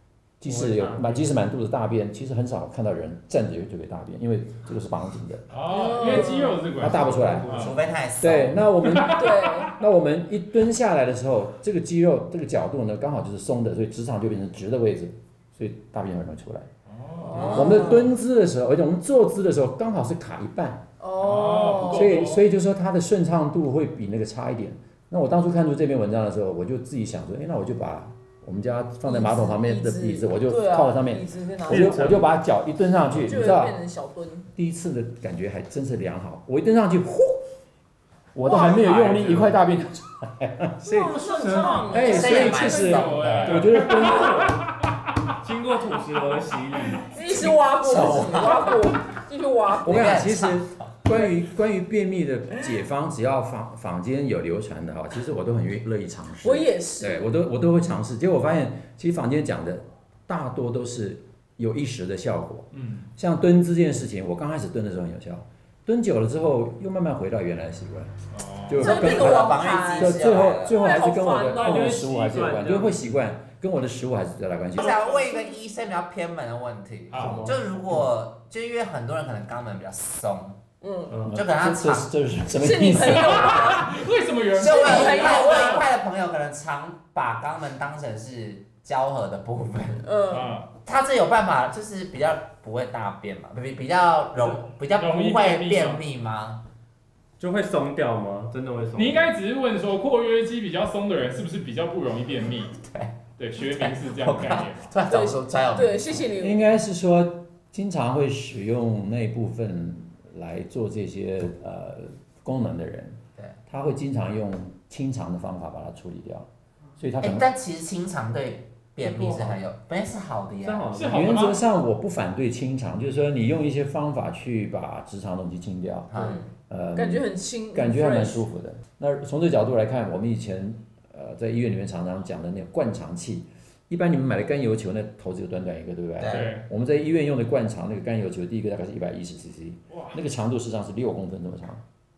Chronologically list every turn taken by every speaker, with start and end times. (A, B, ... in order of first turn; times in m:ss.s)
0:00.4-0:07.6 A
0:00.4-0:01.3 B
0:05.5-0:07.8 C
0:05.7-0:06.7 D
0:06.9-0:07.9 B
0:07.5-0:08.6 E
0:08.2-0:16.7 A
0:08.8-0:09.5 C
0:09.1-0:09.8 D
0:16.9-0:17.7 C
0:17.2-0:18.1 D
0:17.4-0:17.8 E
0:17.4-0:20.8 A
0:21.0-0:22.2 D
0:21.2-0:22.4 C
0:21.8-0:33.8 A
0:29.0-0:32.2 D
0:31.7-0:32.3 B
0:33.2-0:34.5 D
0:34.5-0:37.4 A
0:38.4-0:40.9 A
0:38.4-0:39.2 D
0:39.2-0:39.5 C
0:40.8-0:42.0 B
0:40.8-0:43.3 D
0:40.8-0:44.7 C
0:41.9-0:44.6 A
0:42.0-0:43.6 E
0:43.5-0:44.6 B
0:45.4-0:47.1 B
0:47.0-0:50.2 D
0:47.2-0:48.8 E
0:49.8-0:50.9 E
0:49.8-1:08.1 A
0:56.4-0:57.3 D
1:02.7-1:03.1 C
1:08.3-1:09.0 C
1:08.7-1:15.0 A
1:08.8-1:10.9 E
1:08.8-1:12.0 D
1:11.5-1:13.2 B
1:14.8-1:20.6 E
1:17.1-1:17.5 C
1:17.2-1:17.6 B
1:20.8-1:21.2 D
1:21.1-1:21.4 B
1:21.2-1:23.6 A
1:21.3-1:22.1 E
1:22.5-1:23.9 D
1:23.1-1:25.9 C
1:24.5-1:30.1 E
1:24.6-1:25.9 D
1:30.0-1:30.6 D
1:30.3-1:30.7 C
1:30.8-1:36.6 E
1:34.4-1:36.0 C
1:37.4-1:39.3 B
1:39.0-1:42.8 C
1:42.8-1:46.3 E
1:43.4-1:44.9 C
1:45.1-1:46.6 D
1:46.4-1:57.5 A
1:57.2-2:00.8 E
1:59.1-1:59.6 B
2:00.6-2:01.6 B
2:00.9-2:01.6 C
2:01.1-2:21.8 A
2:06.1-2:06.4 E
2:06.2-2:08.5 D
2:16.2-2:16.5 E
2:16.2-2:16.6 C
2:19.9-2:20.2 C